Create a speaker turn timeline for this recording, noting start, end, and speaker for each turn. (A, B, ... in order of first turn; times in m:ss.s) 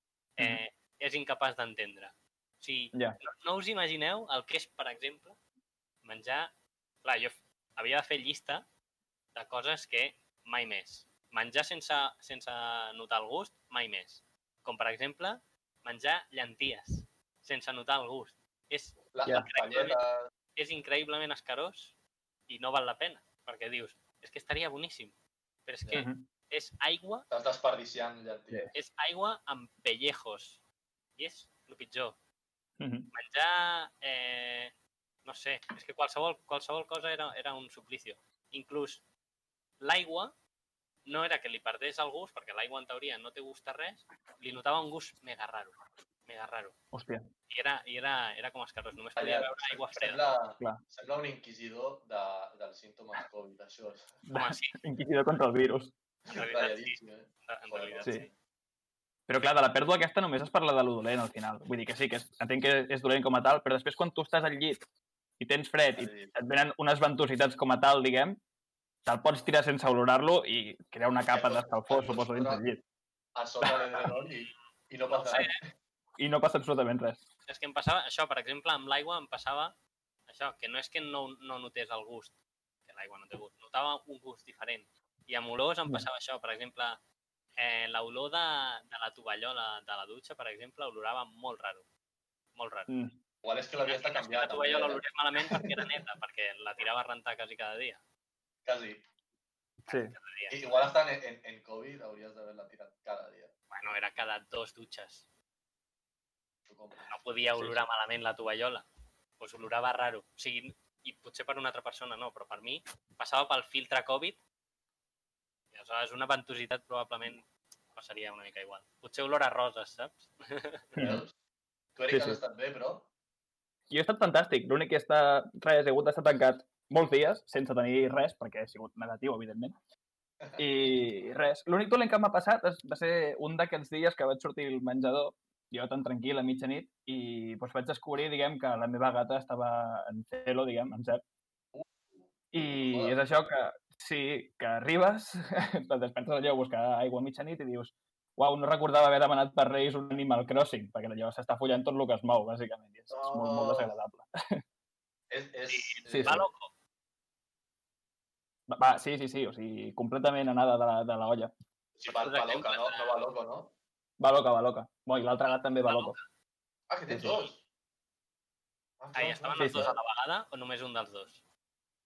0:00.4-0:05.4 A
0:06.0-0:06.5 A
0:07.0-0:08.6 A
0:09.3-0:20.0 A
0:19.1-0:20.2 B
0:20.5-0:22.0 A
0:22.5-0:27.3 A
0:25.9-0:26.2 C
0:27.3-0:28.7 B
0:28.7-0:30.6 A
0:31.2-0:32.2 A
0:32.8-0:33.1 C
0:33.1-0:34.7 A
0:35.2-0:39.0 A
0:39.8-0:40.3 A
0:41.0-0:46.8 A
0:46.9-0:47.3 C
0:47.5-0:50.3 A
0:49.2-0:54.2 B
0:54.3-0:55.9 C
0:54.3-0:54.8 A
0:56.3-0:58.3 B
0:56.3-0:58.3 A
0:59.3-1:04.8 C
1:05.4-1:08.4 C
1:05.9-1:06.3 B
1:09.0-1:12.8 C
1:11.3-1:12.6 B
1:13.3-1:15.6 B
1:15.1-1:15.6 A
1:16.2-1:17.2 C
1:17.4-1:19.7 A
1:20.3-1:27.0 A
1:27.6-1:31.9 A
1:32.5-1:32.9 A
1:32.9-1:33.1 C
1:33.4-1:35.6 B
1:33.8-1:38.0 A
1:38.6-1:39.0 B
1:39.8-1:40.9 A
1:39.9-1:40.1 C
1:40.5-1:43.5 B
1:43.7-1:45.3 A
1:46.7-1:47.1 B
1:47.1-1:48.8 A
1:47.6-1:47.8 C
1:49.4-1:54.4 A
1:55.7-2:01.0 A
2:01.0-2:01.2 C
2:01.0-2:01.3 B
2:02.0-2:03.1 B
2:02.1-2:02.4 C
2:03.9-2:09.7 C
2:10.4-2:10.7 B
2:10.6-2:21.2 C
2:21.7-2:23.2 B
2:22.5-2:34.6 C
2:33.1-2:34.0 B
2:35.3-2:36.4 B
2:35.7-2:36.7 A
2:36.1-2:36.4 C
2:38.7-2:41.5 C
2:42.0-2:43.7 B
2:42.1-2:43.2 A
2:44.2-2:46.2 C
2:45.4-2:46.3 A
2:46.9-2:47.6 B
2:47.2-2:47.5 A
2:49.0-2:50.0 B
2:49.1-2:51.4 A
2:49.6-2:49.9 C